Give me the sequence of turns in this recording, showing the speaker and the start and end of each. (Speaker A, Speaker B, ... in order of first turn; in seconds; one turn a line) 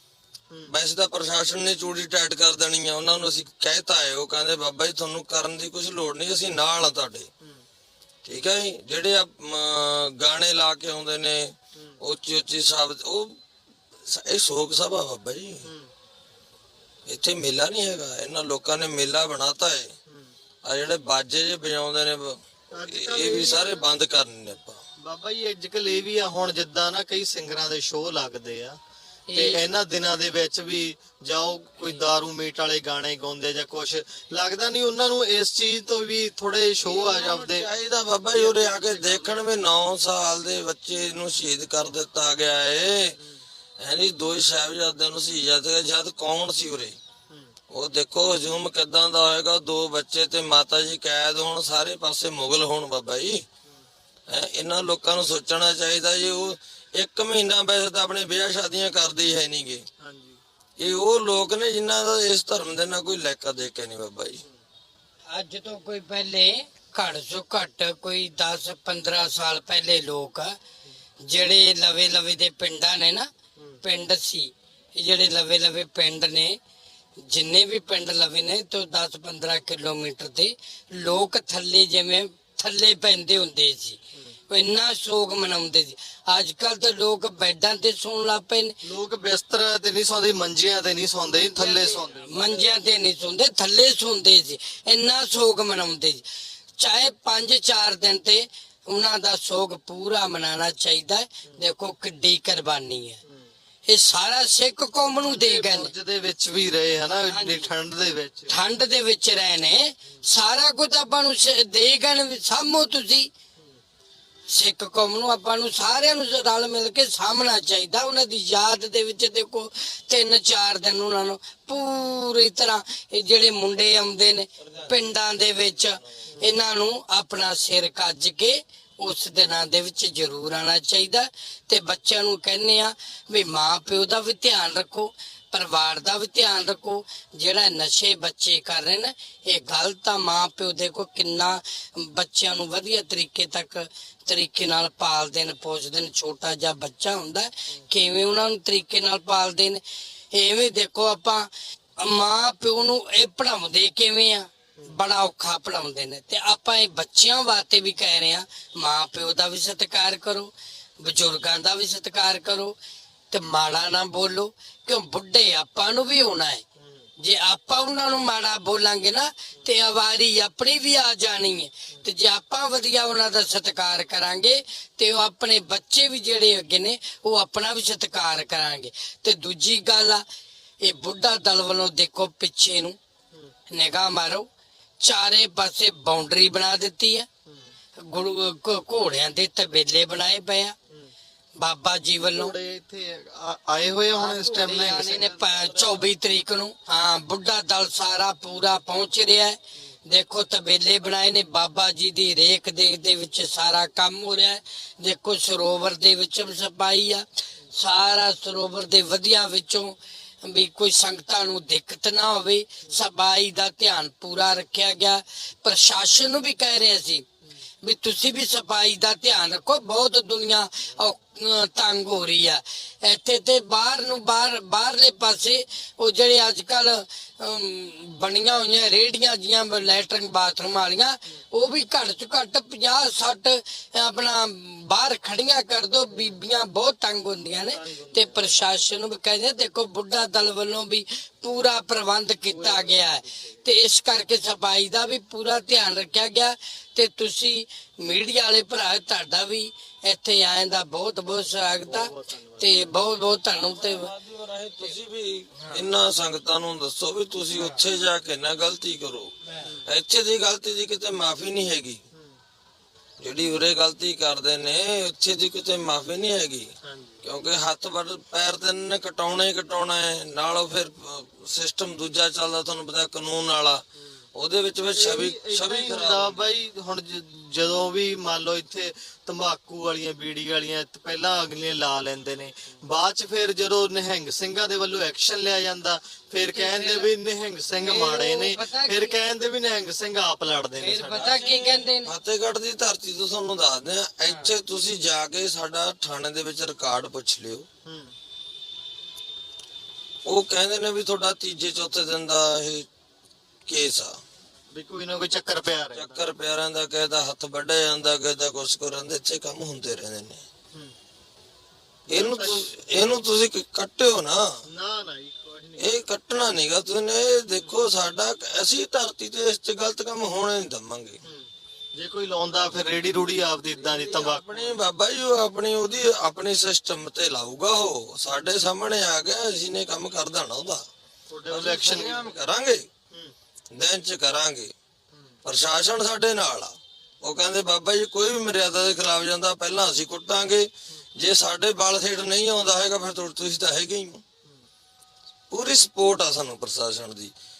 Speaker A: 0.7-7.3
Speaker A: 8.2-13.4
Speaker A: 14.0-15.7
Speaker B: 15.6-15.9
Speaker A: 17.1-19.9
Speaker A: 20.6-24.8
Speaker B: 22.7-23.8
Speaker B: 25.0-28.8
Speaker C: 29.3-29.6
Speaker B: 29.3-37.7
Speaker A: 36.8-43.2
Speaker B: 38.5-39.1
Speaker A: 43.8-47.0
Speaker A: 47.7-53.4
Speaker A: 54.3-59.9
Speaker B: 60.0-60.4
Speaker A: 60.8-64.4
Speaker C: 65.3-70.6
Speaker C: 71.2-73.3
Speaker C: 73.8-76.6
Speaker C: 77.2-88.7
Speaker B: 88.8-92.7
Speaker C: 91.4-96.2
Speaker C: 96.8-103.2
Speaker C: 103.8-105.9
Speaker B: 105.2-108.5
Speaker C: 107.2-107.7
Speaker C: 108.5-113.3
Speaker C: 114.5-149.8
Speaker A: 124.6-126.0
Speaker C: 150.3-162.7
Speaker C: 163.3-166.6
Speaker C: 167.2-180.2
Speaker C: 180.8-182.9
Speaker C: 183.7-184.5
Speaker C: 185.0-187.3
Speaker C: 188.0-190.8
Speaker C: 191.6-192.5
Speaker B: 192.3-195.4
Speaker C: 194.2-217.2
Speaker A: 195.6-196.0
Speaker C: 217.8-254.1
Speaker B: 237.7-238.5
Speaker B: 242.5-243.2
Speaker B: 251.9-252.8
Speaker A: 253.7-262.0
Speaker C: 257.5-257.8
Speaker A: 263.2-276.5
Speaker B: 266.8-267.2
Speaker B: 274.9-291.3
Speaker C: 286.5-287.1
Speaker C: 287.8-289.2
Speaker C: 290.8-292.1
Speaker A: 291.1-297.7
Speaker C: 294.2-294.6
Speaker B: 297.8-298.1
Speaker A: 300.2-302.9
Speaker A: 303.6-304.2
Speaker B: 304.7-306.2
Speaker A: 305.9-310.4
Speaker B: 312.1-312.7
Speaker A: 312.1-314.6
Speaker B: 314.6-316.0
Speaker A: 315.8-321.2
Speaker B: 321.2-324.8
Speaker A: 323.8-330.8
Speaker B: 331.3-332.3
Speaker A: 331.5-332.9
Speaker A: 333.7-334.7
Speaker A: 335.4-344.2
Speaker A: 345.5-347.3